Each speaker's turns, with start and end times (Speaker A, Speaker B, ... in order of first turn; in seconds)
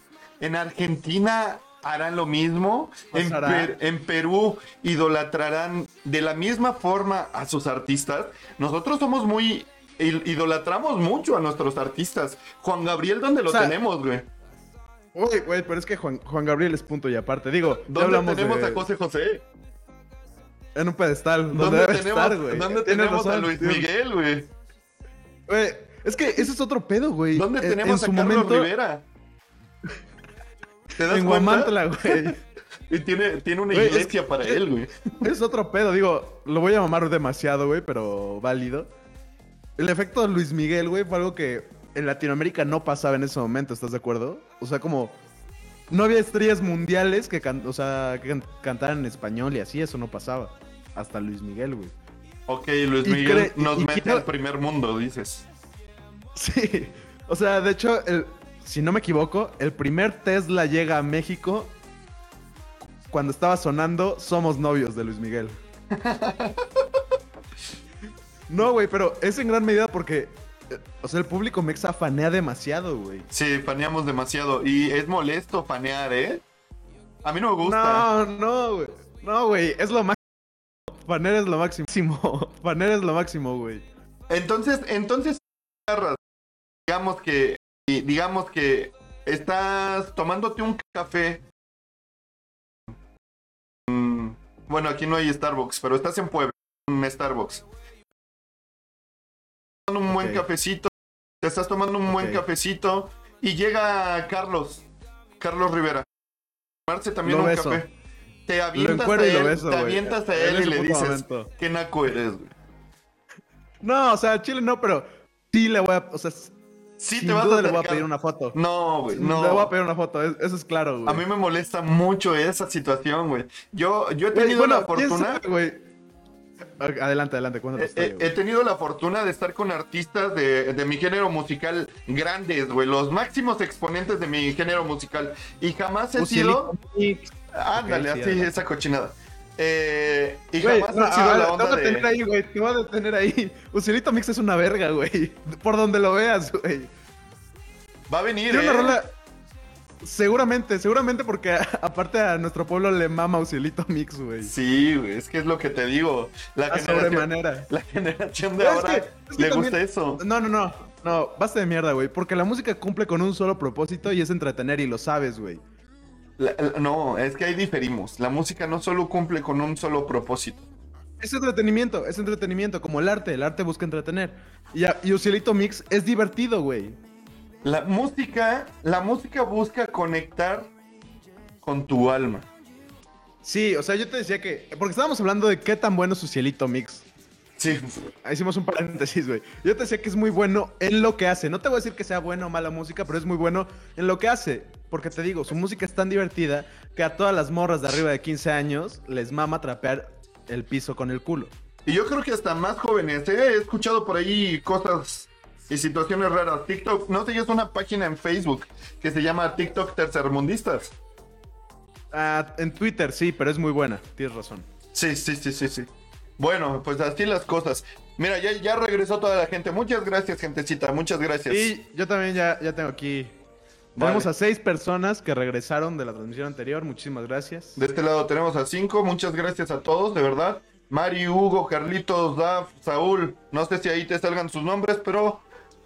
Speaker A: 0.4-14.3, 17.8-19.4, 21.5-24.5, 27.3-29.0, 30.9-32.3, 32.9-35.3, 52.5-55.5, 65.9-66.8, 73.3-76.4, 77.2-78.1, 84.3-86.2, 86.9-91.4, 93.9-97.6, 99.9-100.9, 101.4-104.8, 105.4-106.1, 106.9-107.9, 108.5-112.5, 117.0-119.7, 121.0-125.4, 127.8-136.7, 137.5-142.1, 148.1-149.0, 154.4-160.2, 166.4-170.6, 177.6-180.7, 181.6-182.4, 187.6-187.9, 201.8-210.9, 214.9-221.7, 223.9-224.3, 227.8-235.4
Speaker B: 3.1-3.8, 13.5-13.8, 15.1-18.8, 20.7-23.9, 25.5-28.7, 31.1-32.4, 33.7-34.6, 35.2-38.9, 39.8-45.1, 45.9-51.9, 53.0-54.2, 56.3-61.7, 63.1-65.5, 68.5-73.3, 77.6-80.2, 80.9-83.8, 100.1-100.4, 102.1-102.4, 107.2-107.8, 108.7-111.5, 113.8-116.5, 117.2-118.6, 119.1-121.2, 124.3-125.8, 126.8-128.3, 136.2-138.6, 140.6-146.9, 148.5-149.1, 150.0-154.5, 156.7-157.7, 158.6-165.6, 171.2-177.0, 183.4-187.1, 188.2-201.5, 212.1-214.7, 221.5-223.4, 224.0-227.8